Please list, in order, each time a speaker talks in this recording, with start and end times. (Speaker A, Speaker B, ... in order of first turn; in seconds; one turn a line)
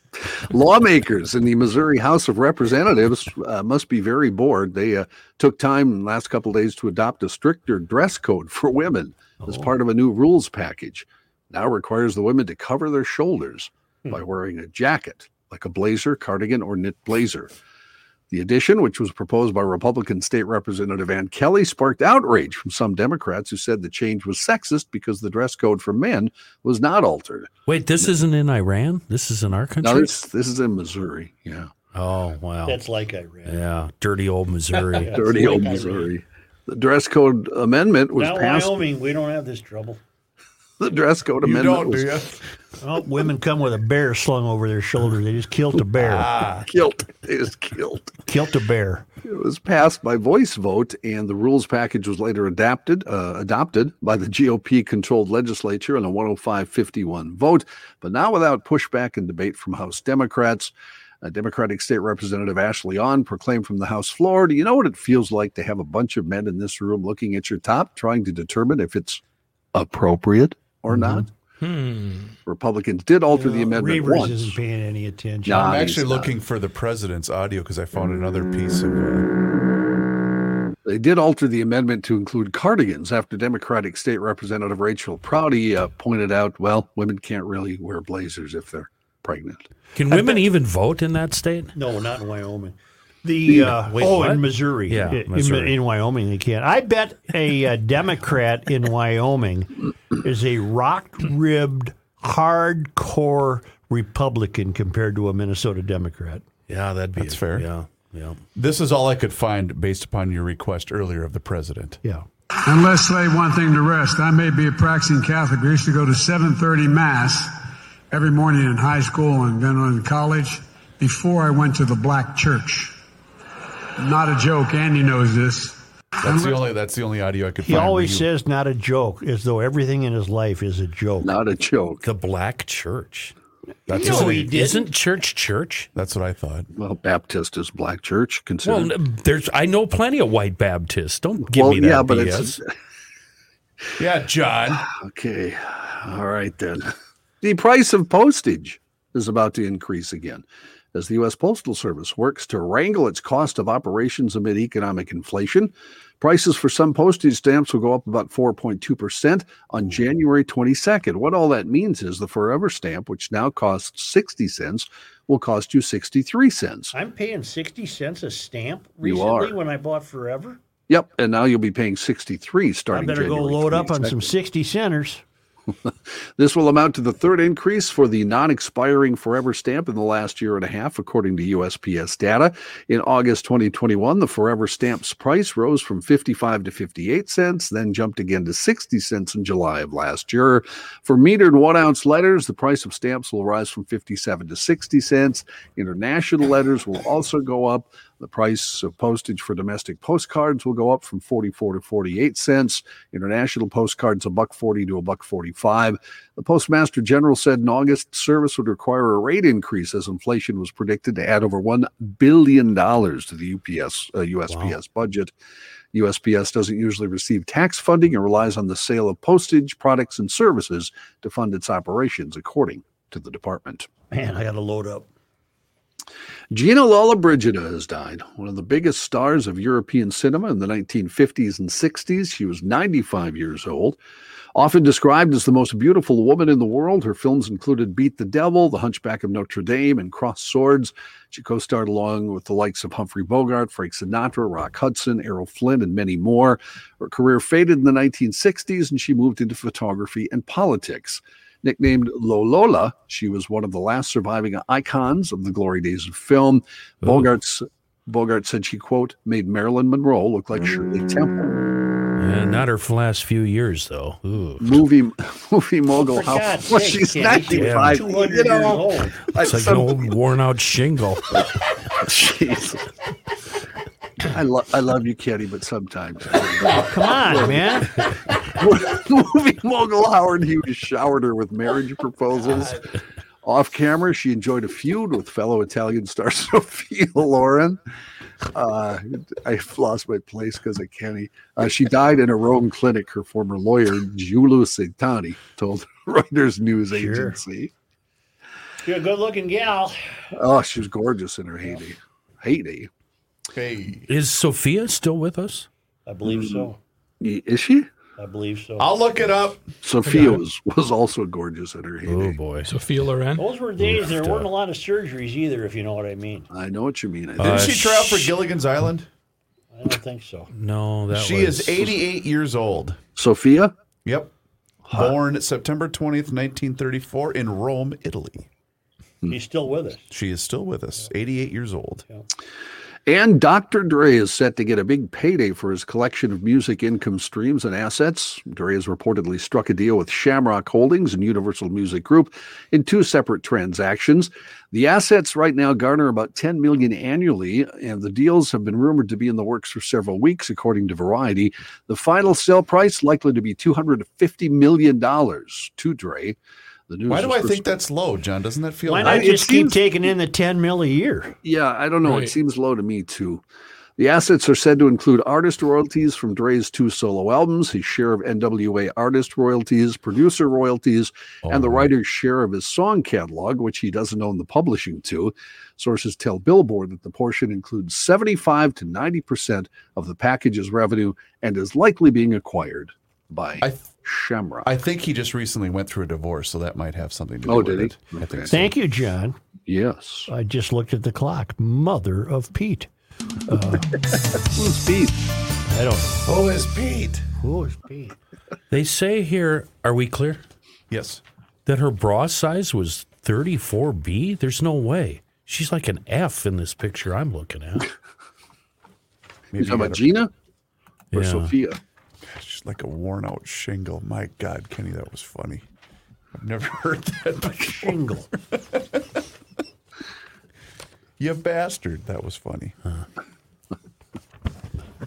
Speaker A: 0.2-17.5
Speaker B: 9.4-9.7
Speaker A: 18.3-27.5
Speaker C: 27.7-30.1
Speaker A: 29.8-31.7
Speaker C: 31.9-32.8
Speaker B: 32.6-33.6
Speaker C: 33.5-35.1
Speaker B: 35.0-36.1
Speaker A: 35.0-38.8
Speaker B: 38.2-40.0
Speaker A: 40.8-42.3
Speaker D: 41.4-42.4
Speaker B: 42.8-46.3
Speaker D: 45.9-46.7
Speaker A: 46.6-48.1
Speaker B: 48.2-49.0
Speaker A: 49.2-69.2
Speaker A: 69.7-71.3
Speaker E: 71.6-72.3
Speaker A: 72.5-74.6
Speaker B: 73.3-75.8
Speaker A: 75.4-76.3
Speaker D: 75.5-79.3
Speaker A: 80.8-89.7
Speaker C: 89.9-91.7
Speaker B: 91.7-106.4
Speaker C: 93.9-95.8
Speaker C: 106.7-108.4
Speaker D: 107.2-107.7
Speaker D: 108.5-112.0
Speaker F: 112.7-117.6
Speaker F: 118.1-123.0
Speaker F: 124.0-126.6
Speaker D: 126.2-128.2
Speaker B: 127.6-131.3
Speaker A: 131.2-132.0
Speaker C: 132.0-133.3
Speaker D: 133.9-134.5
Speaker B: 133.9-134.8
Speaker C: 133.9-135.9
Speaker D: 135.9-136.7
Speaker A: 136.7-138.9
Speaker C: 138.6-142.6
Speaker A: 141.4-142.7
Speaker D: 144.0-144.9
Speaker A: 144.7-166.9
Speaker B: 166.9-170.6
Speaker A: 169.0-169.6
Speaker A: 170.9-174.3
Speaker B: 172.9-175.2
Speaker A: 175.7-215.3
Speaker A: 215.9-223.9
Speaker B: 224.1-225.1
Speaker A: 226.5-234.0
Speaker A: 234.5-261.6
Speaker C: 257.0-257.3
Speaker C: 262.2-264.8
Speaker A: 264.6-270.1
Speaker B: 265.9-269.2
Speaker C: 267.5-268.0
Speaker C: 269.4-271.4
Speaker A: 271.3-272.8
Speaker A: 274.2-287.8
Speaker B: 276.6-277.9
Speaker A: 288.5-297.7
Speaker B: 296.9-297.4
Speaker B: 298.8-300.2
Speaker A: 300.3-302.9
Speaker D: 303.5-304.1
Speaker C: 304.1-305.7
Speaker B: 306.1-306.8
Speaker A: 306.3-306.6
Speaker A: 307.2-307.9
Speaker B: 308.2-308.9
Speaker D: 308.8-309.7
Speaker A: 309.8-312.4
Speaker E: 310.0-310.4
Speaker C: 312.0-312.7
Speaker E: 312.6-313.4
Speaker B: 313.4-316.5
Speaker C: 313.8-314.5
Speaker A: 316.5-317.8
Speaker C: 317.4-318.3
Speaker D: 317.4-319.1
Speaker B: 319.7-320.5
Speaker C: 320.5-321.9
Speaker D: 321.1-323.0
Speaker A: 323.1-323.7
Speaker D: 324.0-324.3
Speaker D: 324.9-328.5
Speaker B: 329.3-330.1
Speaker D: 330.1-332.0
Speaker A: 333.1-356.4
Speaker A: 356.9-357.7
Speaker D: 357.1-359.3
Speaker B: 358.9-361.3
Speaker A: 359.0-359.8
Speaker A: 361.4-363.4
Speaker E: 362.0-362.3
Speaker A: 364.0-384.7
Speaker D: 371.4-371.9
Speaker D: 383.6-383.9
Speaker D: 384.6-388.7
Speaker A: 387.4-388.5
Speaker B: 388.5-389.4
Speaker A: 389.6-390.3
Speaker B: 390.3-392.9
Speaker B: 393.4-394.0
Speaker A: 394.4-395.1
Speaker B: 395.7-396.2
Speaker D: 396.2-397.2
Speaker B: 397.4-398.2
Speaker C: 398.7-400.4
Speaker D: 400.9-401.2
Speaker C: 401.6-407.9
Speaker D: 409.5-410.1
Speaker A: 409.6-410.3
Speaker C: 411.1-411.5
Speaker A: 411.1-411.8
Speaker D: 412.2-415.6
Speaker D: 416.3-417.9
Speaker B: 417.5-418.3
Speaker D: 418.5-419.0
Speaker D: 421.2-422.8